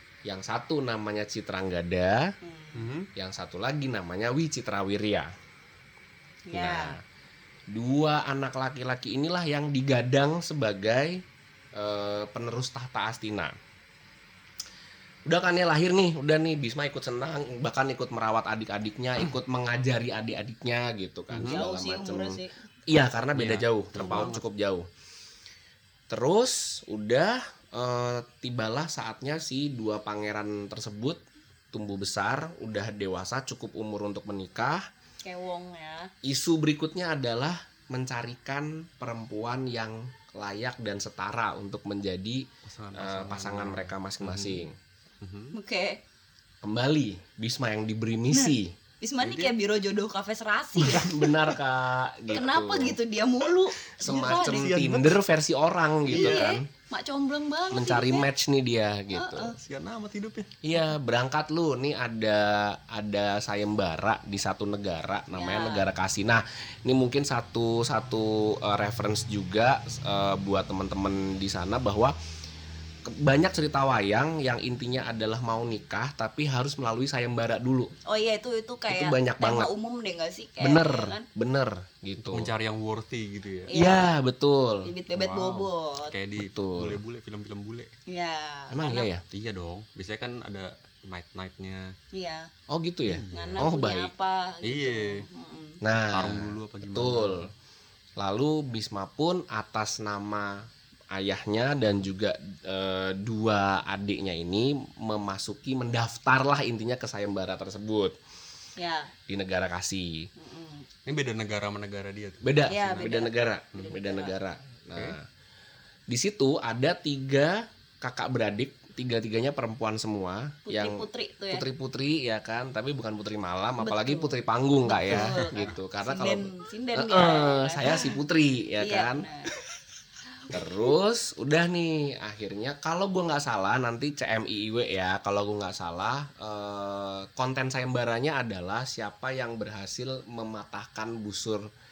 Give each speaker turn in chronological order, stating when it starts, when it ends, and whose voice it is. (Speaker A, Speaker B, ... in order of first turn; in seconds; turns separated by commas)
Speaker A: 0.2-2.3, Speaker B: 2.4-2.9, Speaker C: 2.8-3.1, Speaker A: 3.1-5.3, Speaker B: 6.5-7.0, Speaker A: 6.5-7.0, Speaker A: 7.7-11.2, Speaker A: 11.8-13.5, Speaker A: 15.3-22.4, Speaker C: 21.3-21.6, Speaker B: 21.4-22.5, Speaker A: 22.9-24.9, Speaker C: 23.3-24.4, Speaker A: 26.1-31.2, Speaker A: 31.7-34.8, Speaker B: 35.2-36.1, Speaker A: 36.2-44.8, Speaker C: 42.6-44.6, Speaker C: 45.2-45.5, Speaker B: 45.5-46.0, Speaker A: 46.6-48.8, Speaker B: 48.3-51.1, Speaker C: 49.2-49.5, Speaker A: 50.8-53.0, Speaker B: 52.3-54.7, Speaker A: 54.0-56.7, Speaker C: 54.0-55.2, Speaker C: 56.1-56.5, Speaker B: 56.1-58.3, Speaker A: 57.7-59.5, Speaker B: 59.1-59.5, Speaker C: 59.5-60.5, Speaker A: 60.6-72.1, Speaker B: 65.3-65.9, Speaker A: 73.1-77.9, Speaker B: 78.0-81.2, Speaker A: 78.9-79.7, Speaker A: 80.6-82.5, Speaker C: 82.2-83.7, Speaker B: 83.7-84.1, Speaker A: 83.7-84.9, Speaker B: 84.8-86.1, Speaker C: 85.1-87.9, Speaker A: 86.3-87.0, Speaker B: 88.1-89.1, Speaker A: 88.7-89.2, Speaker C: 89.3-91.9, Speaker B: 92.1-92.5, Speaker A: 92.7-94.1, Speaker C: 93.1-93.7, Speaker B: 93.3-95.8, Speaker C: 94.6-95.2, Speaker A: 95.8-97.5, Speaker C: 95.9-97.5, Speaker A: 98.2-108.1, Speaker B: 108.8-109.1, Speaker A: 109.3-110.3, Speaker B: 110.4-110.9, Speaker C: 111.0-112.6, Speaker A: 112.4-115.2, Speaker B: 112.7-114.3, Speaker A: 116.1-129.3, Speaker B: 120.7-121.7, Speaker B: 123.8-128.2, Speaker C: 125.1-125.5, Speaker B: 128.8-129.5, Speaker A: 130.5-141.7